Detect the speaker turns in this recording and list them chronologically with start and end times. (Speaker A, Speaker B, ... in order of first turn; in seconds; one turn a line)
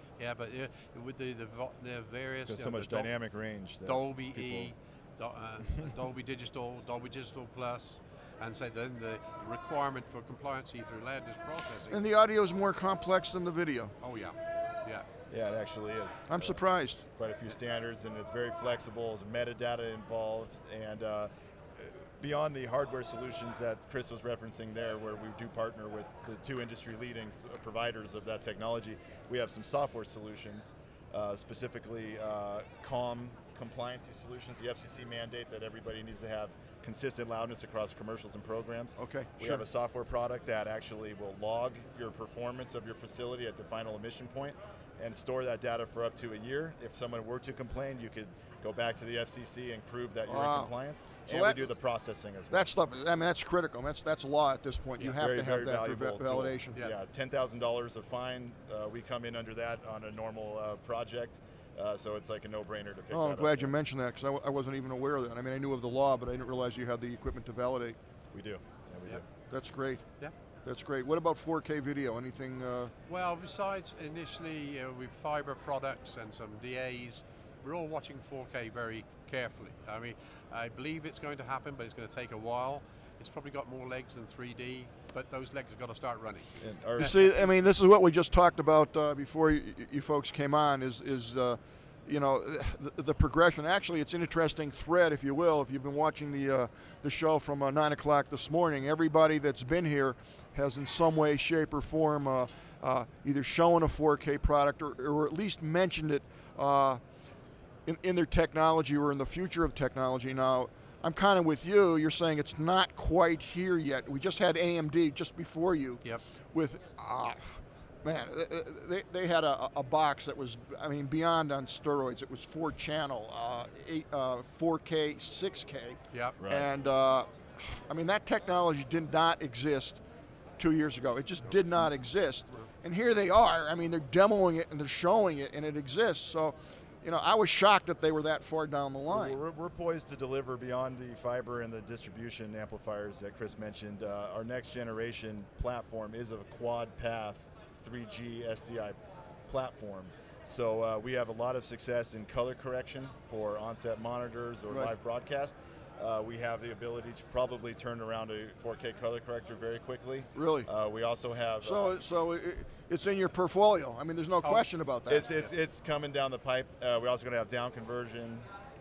Speaker A: 0.2-3.1
Speaker B: 2.4-4.7
Speaker A: 3.9-12.0
Speaker C: 11.9-13.9
Speaker A: 14.0-15.1
Speaker B: 15.3-52.7
Speaker C: 16.3-17.0
Speaker C: 39.0-39.6
Speaker C: 50.3-50.7
Speaker C: 51.3-51.7
Speaker C: 52.5-56.8
Speaker B: 55.1-63.8
Speaker C: 63.1-68.0
Speaker B: 68.3-69.2
Speaker C: 69.5-70.1
Speaker C: 70.6-72.9
Speaker A: 73.1-87.1
Speaker B: 86.6-87.3
Speaker C: 87.0-107.0
Speaker C: 107.9-130.0
Speaker B: 126.4-126.7
Speaker C: 130.6-139.4
Speaker B: 139.1-162.0
Speaker C: 160.3-160.7
Speaker C: 161.6-165.3
Speaker B: 165.1-168.5